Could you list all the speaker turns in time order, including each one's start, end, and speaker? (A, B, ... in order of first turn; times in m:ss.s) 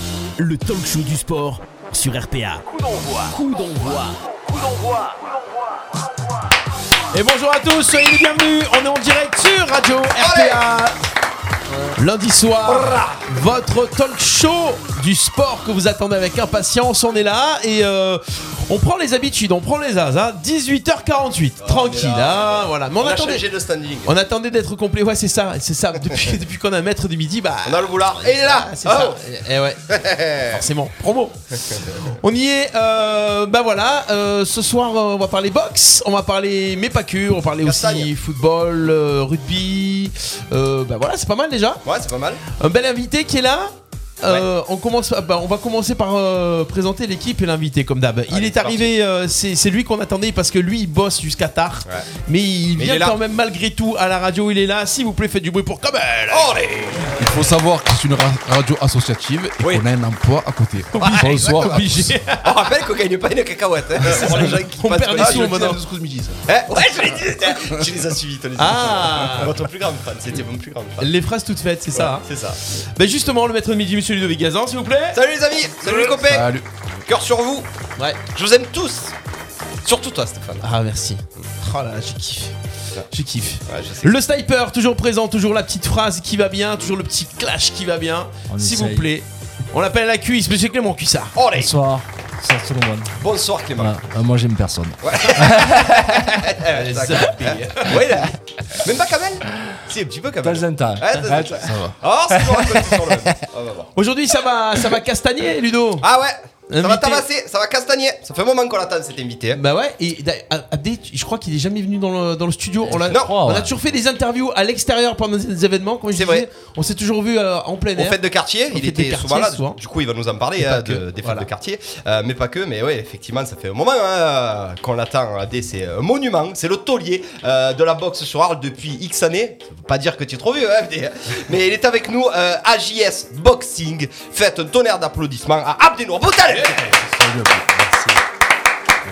0:00.4-0:05.3 A
0:07.1-0:11.0 B
0:10.2-0:10.7 C
0:12.0-0:23.5 B
0:21.6-0:24.1 C
0:24.0-0:29.8 B
0:27.6-0:29.2 C
0:29.9-0:30.6 C
0:30.5-0:41.8 B
0:31.7-0:32.0 C
0:37.6-0:38.1 C
0:41.8-0:42.4 C
0:42.5-0:57.0 B
0:48.3-0:48.9 C
0:52.7-0:53.2 C
0:56.3-0:57.2 C
0:57.1-1:02.1 D
1:01.0-1:02.7 B
1:01.0-1:01.9 C
1:02.4-1:05.7 C
1:04.0-1:05.8 B
1:05.2-1:06.4 D
1:06.4-1:11.1 C
1:08.6-1:09.6 B
1:11.0-1:12.2 B
1:11.9-1:12.6 C
1:13.0-1:15.2 B
1:15.1-1:16.5 C
1:16.1-1:16.7 D
1:17.0-1:17.7 C
1:18.3-1:19.1 C
1:19.8-1:20.6 C
1:20.6-1:22.5 B
1:23.1-1:31.4 B
1:23.7-1:24.2 C
1:28.5-1:29.1 E
1:31.3-1:31.7 C
1:31.6-1:33.1 E
1:33.2-1:34.0 C
1:33.8-1:35.9 E
1:35.0-1:43.9 C
1:36.7-1:38.1 B
1:40.4-1:43.3 E
1:43.9-1:46.0 B
1:46.0-1:49.6 C
1:46.7-1:47.2 B
1:49.5-1:58.2 B
1:52.8-1:53.7 E
1:56.1-1:56.5 C
1:57.9-2:17.0 C
1:58.7-1:59.8 B
2:00.6-2:01.5 B
2:17.1-2:17.7 D